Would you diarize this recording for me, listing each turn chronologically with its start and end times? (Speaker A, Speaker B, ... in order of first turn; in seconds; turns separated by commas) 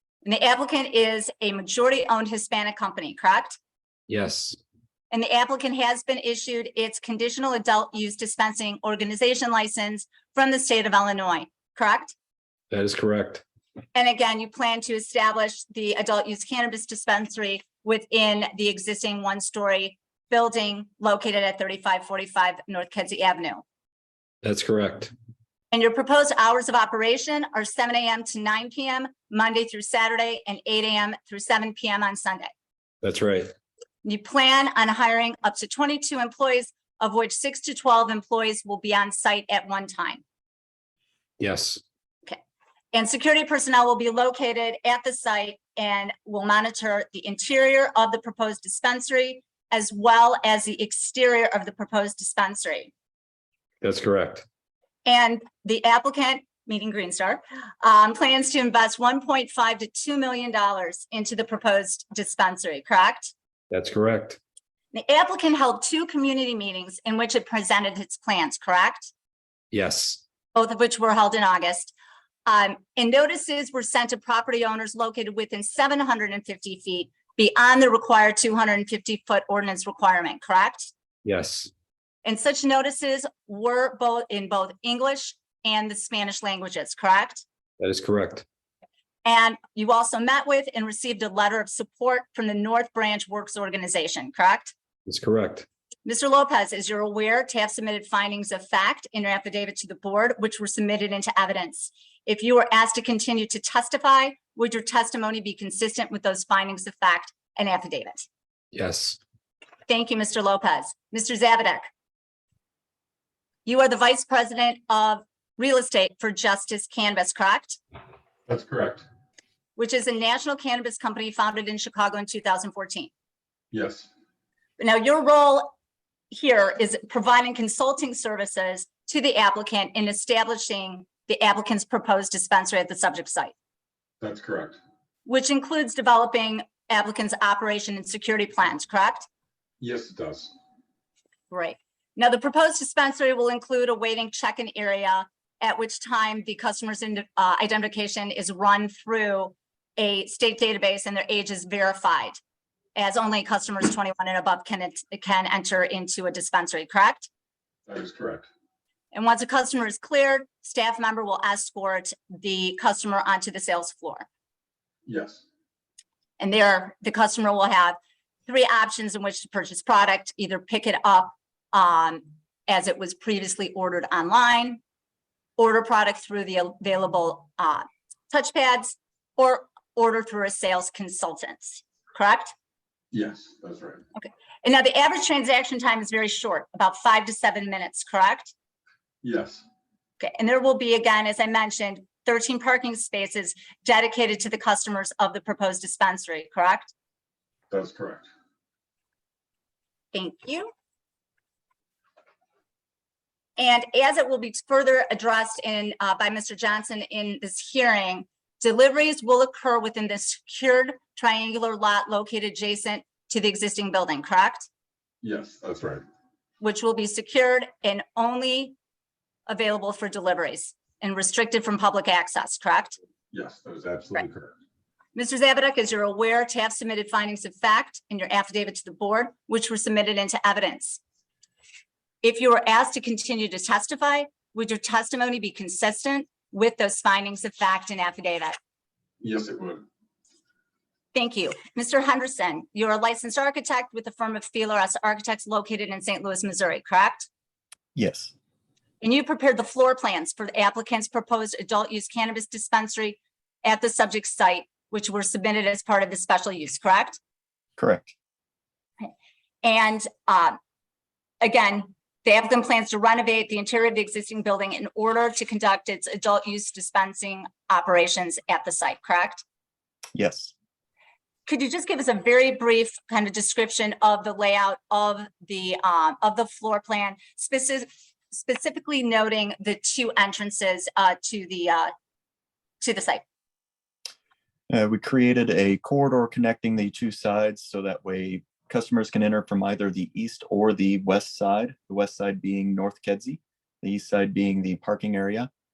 Speaker A: 0.2-3.6, Speaker B: 4.1-4.6, Speaker A: 5.1-12.1, Speaker B: 12.7-13.4, Speaker A: 13.9-23.6, Speaker B: 24.4-25.1, Speaker A: 25.7-32.5, Speaker B: 33.0-33.5, Speaker A: 34.0-40.2, Speaker B: 41.4-41.8, Speaker A: 42.9-52.9, Speaker B: 53.8-54.4, Speaker A: 55.0-63.3, Speaker B: 63.7-64.4, Speaker A: 64.9-69.1, Speaker B: 69.7-70.2, Speaker A: 70.5-71.9, Speaker A: 72.5-80.9, Speaker B: 81.2-81.7, Speaker A: 82.2-87.4, Speaker B: 87.8-88.4, Speaker A: 89.2-94.7, Speaker B: 95.0-95.7, Speaker A: 96.0-108.3, Speaker B: 108.7-109.2, Speaker A: 109.9-111.8, Speaker A: 113.6-117.8, Speaker C: 118.5-119.0, Speaker A: 119.8-123.1, Speaker C: 123.7-124.1, Speaker A: 124.8-125.7, Speaker A: 126.3-133.5, Speaker C: 134.2-134.8, Speaker A: 135.2-139.3, Speaker C: 139.8-140.5, Speaker A: 141.5-152.4, Speaker A: 152.9-157.3, Speaker C: 157.9-158.5, Speaker A: 159.1-164.3, Speaker C: 165.1-165.4, Speaker A: 166.4-174.8, Speaker A: 175.6-182.5, Speaker C: 183.1-184.0, Speaker A: 184.2-188.5, Speaker C: 189.2-189.6, Speaker A: 190.2-196.9, Speaker C: 197.7-198.3, Speaker A: 200.1-200.7, Speaker A: 203.6-214.7, Speaker C: 215.2-216.0, Speaker A: 216.6-218.7, Speaker A: 219.5-223.0, Speaker C: 223.3-224.5, Speaker A: 225.1-231.0, Speaker A: 232.2-238.6, Speaker C: 239.2-239.8, Speaker A: 241.1-247.3, Speaker D: 247.9-248.3, Speaker A: 249.0-257.2, Speaker D: 257.8-258.1, Speaker A: 259.6-260.6, Speaker A: 261.4-269.4, Speaker D: 270.1-270.5, Speaker A: 271.5-281.9, Speaker A: 282.8-283.2, Speaker D: 284.7-295.5